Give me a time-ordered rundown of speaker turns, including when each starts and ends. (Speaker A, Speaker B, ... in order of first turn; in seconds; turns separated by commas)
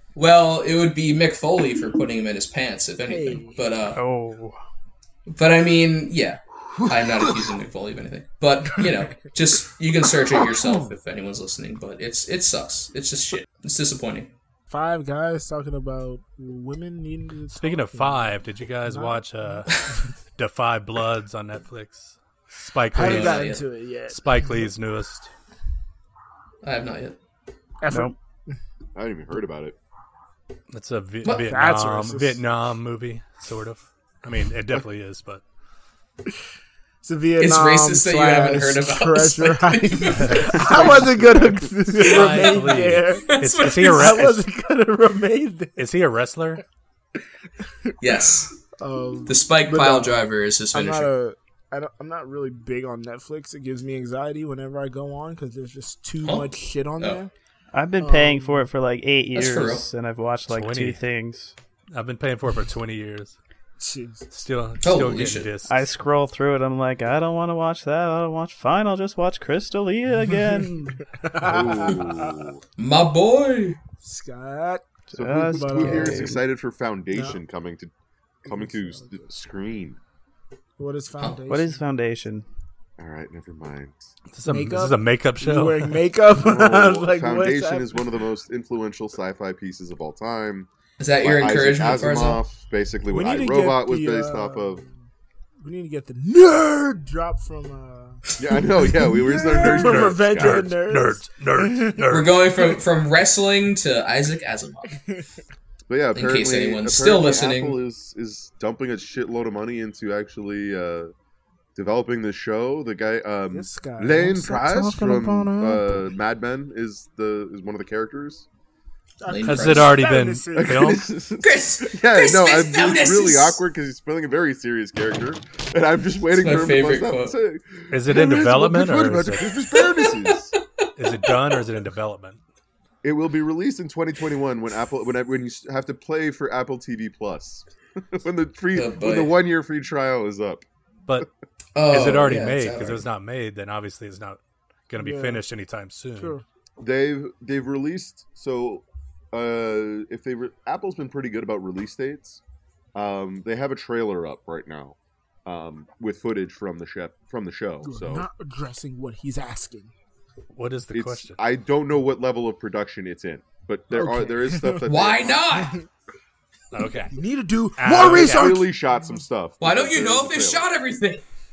Speaker A: 0.1-4.0, Speaker B: 3.1-3.6, Speaker C: 3.9-4.6, Speaker A: 5.3-14.3, Speaker B: 14.7-19.7, Speaker D: 17.5-19.8, Speaker D: 20.3-25.3, Speaker B: 22.9-24.2, Speaker A: 22.9-23.6, Speaker A: 26.6-27.2, Speaker B: 27.8-28.1, Speaker E: 28.9-29.8, Speaker D: 30.7-35.4, Speaker B: 31.5-32.4, Speaker B: 37.0-45.8, Speaker A: 37.4-41.0, Speaker D: 40.1-40.7, Speaker E: 40.7-41.7, Speaker D: 42.0-44.4, Speaker A: 42.0-42.6, Speaker A: 43.3-44.2, Speaker D: 45.8-46.6, Speaker A: 48.0-48.5, Speaker B: 48.8-50.2, Speaker A: 49.3-51.1, Speaker B: 50.7-57.3, Speaker C: 57.7-61.5, Speaker B: 58.0-58.6, Speaker A: 59.3-59.9, Speaker D: 60.5-61.0, Speaker D: 61.9-63.4, Speaker B: 63.8-64.3, Speaker D: 64.3-65.9, Speaker A: 64.8-65.5, Speaker C: 65.7-71.0, Speaker B: 71.1-72.3, Speaker E: 71.4-72.6, Speaker A: 72.8-73.8, Speaker B: 74.0-76.4, Speaker C: 75.1-76.4, Speaker E: 75.1-77.9, Speaker B: 77.1-77.4, Speaker E: 78.4-80.0, Speaker B: 78.5-79.3, Speaker B: 80.8-81.8, Speaker C: 81.5-82.4, Speaker E: 83.0-84.1, Speaker D: 84.3-86.0, Speaker B: 84.5-88.0, Speaker E: 86.4-90.7, Speaker A: 91.0-92.4, Speaker E: 91.2-94.8, Speaker B: 93.1-95.0, Speaker B: 95.6-98.2, Speaker E: 98.4-100.7, Speaker B: 98.9-102.1, Speaker D: 99.6-102.4, Speaker A: 102.1-105.0, Speaker E: 105.9-111.1, Speaker A: 106.1-107.8, Speaker E: 111.7-118.5, Speaker B: 113.5-116.0, Speaker B: 119.2-121.0, Speaker A: 119.3-120.0, Speaker D: 119.4-121.0, Speaker E: 120.5-130.5, Speaker A: 121.4-123.6, Speaker A: 126.3-127.3, Speaker D: 127.9-129.5, Speaker A: 129.8-130.1, Speaker D: 131.0-132.4, Speaker E: 133.0-140.6, Speaker A: 138.7-139.3, Speaker A: 141.7-143.0, Speaker D: 141.9-146.4, Speaker B: 145.0-145.4, Speaker B: 146.2-146.4, Speaker E: 146.8-152.4, Speaker E: 152.9-158.3, Speaker B: 157.8-159.9, Speaker D: 160.5-161.4, Speaker E: 160.9-165.4, Speaker B: 163.9-164.9, Speaker A: 164.8-165.8, Speaker B: 165.6-165.8, Speaker D: 166.7-167.2, Speaker B: 167.1-169.1, Speaker D: 167.8-168.5, Speaker E: 167.9-170.7, Speaker A: 169.6-171.2